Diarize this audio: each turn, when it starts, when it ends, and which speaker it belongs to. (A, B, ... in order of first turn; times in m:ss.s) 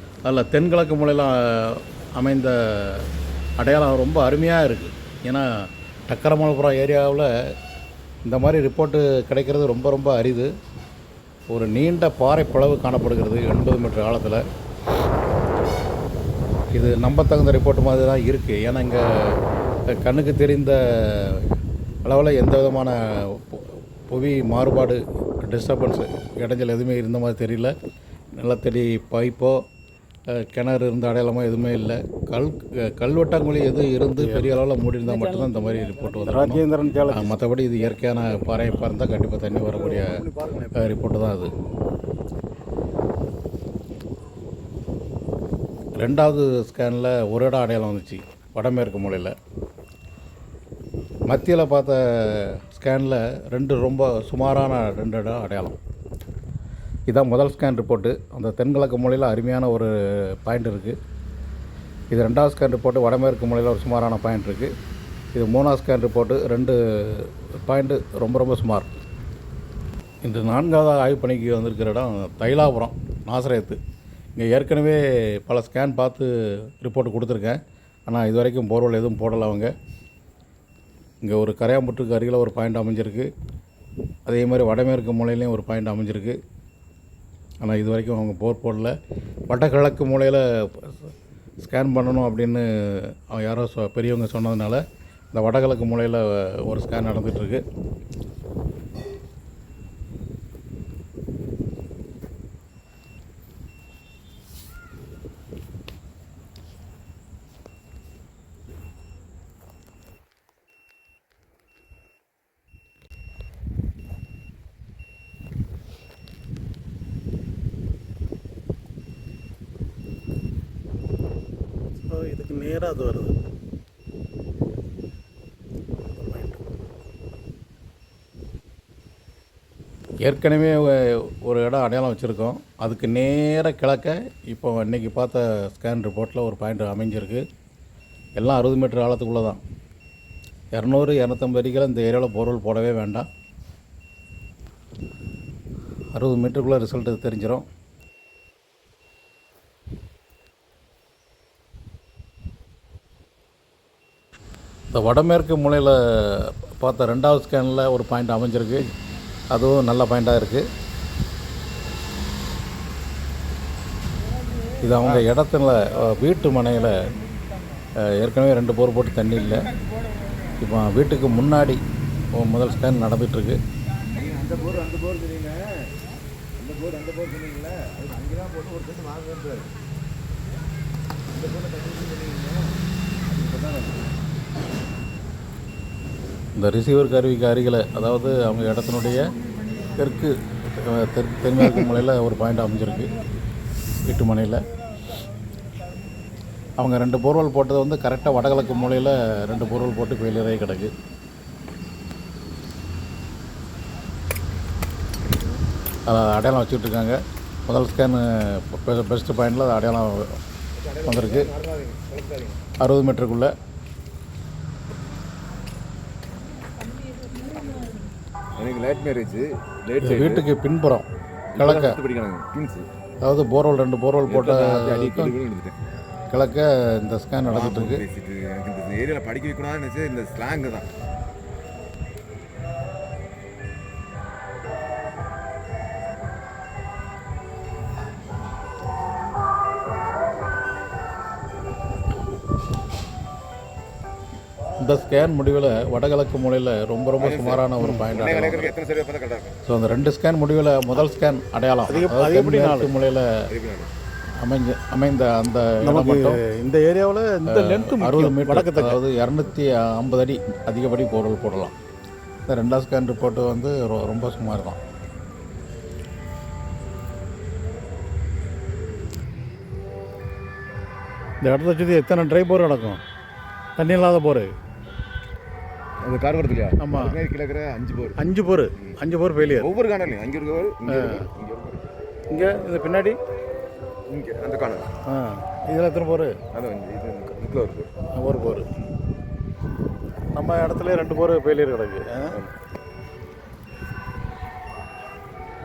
0:00.2-0:03.1 A
0:03.6-0:05.5 A
0:06.1-0:07.3 A
0:08.2-0:10.5 A
0:11.5-0:14.4 A
0:16.7-0:19.4 A
0:20.0-0:27.7 A
0:28.4-0:29.6 A
0:30.3-0:40.2 A
0:34.2-0:37.4 B
0:39.5-0:41.0 B
0:40.8-0:41.5 A
0:46.0-0:49.3 A
0:51.3-0:55.8 A
0:57.1-1:01.0 A
1:02.1-1:04.7 A
1:05.3-1:08.9 A
1:10.2-1:13.8 A
1:14.4-1:19.7 A
1:21.2-1:23.3 A
1:24.3-1:26.4 A
1:27.6-1:29.0 A
1:29.5-1:34.8 A
1:35.3-1:37.6 A
2:02.1-2:03.4 A
2:10.2-2:17.4 A
2:18.4-2:19.6 A
2:20.8-2:23.3 A
2:26.1-2:27.6 A
2:34.9-2:38.9 A
2:39.5-2:40.7 A
2:44.8-2:47.1 A
2:48.0-2:49.6 A
2:50.6-2:51.8 A
2:52.3-2:53.6 A
2:54.1-2:55.7 C
2:56.6-2:59.7 C
3:01.3-3:02.6 C
3:03.3-3:04.2 C
3:06.6-3:09.3 A
3:10.0-3:13.2 A
3:14.0-3:14.6 A
3:16.8-3:20.9 A
3:26.1-3:30.4 A
3:30.8-3:32.6 C
3:31.0-3:31.5 A
3:32.8-3:33.5 A
3:37.4-3:37.9 C
3:38.6-3:40.5 C
3:40.0-3:41.1 A
3:41.5-3:42.9 C
3:41.6-3:42.0 A
3:43.2-3:45.4 A
3:44.3-3:45.8 C
3:46.3-3:48.1 A
3:47.5-3:50.9 C
4:04.8-4:08.8 A
4:07.2-4:09.6 C
4:07.8-4:08.1 B
4:09.7-4:13.5 A
4:11.9-4:12.9 B
4:13.5-4:13.9 C
4:14.4-4:16.4 A
4:15.8-4:19.0 B
4:17.5-4:21.8 A
4:22.5-4:24.8 A
4:31.4-4:33.0 A
4:33.8-4:34.5 A
4:36.0-4:38.2 C
4:36.8-4:37.2 A
4:38.2-4:39.7 A
4:38.8-4:41.9 C
4:39.1-4:39.4 B
4:40.9-4:41.2 A
4:42.3-4:43.2 A
4:44.1-4:44.9 C
4:45.1-4:46.3 A
4:46.5-4:47.9 C
4:48.2-4:48.7 A
4:50.4-4:52.4 A
4:52.2-4:52.5 C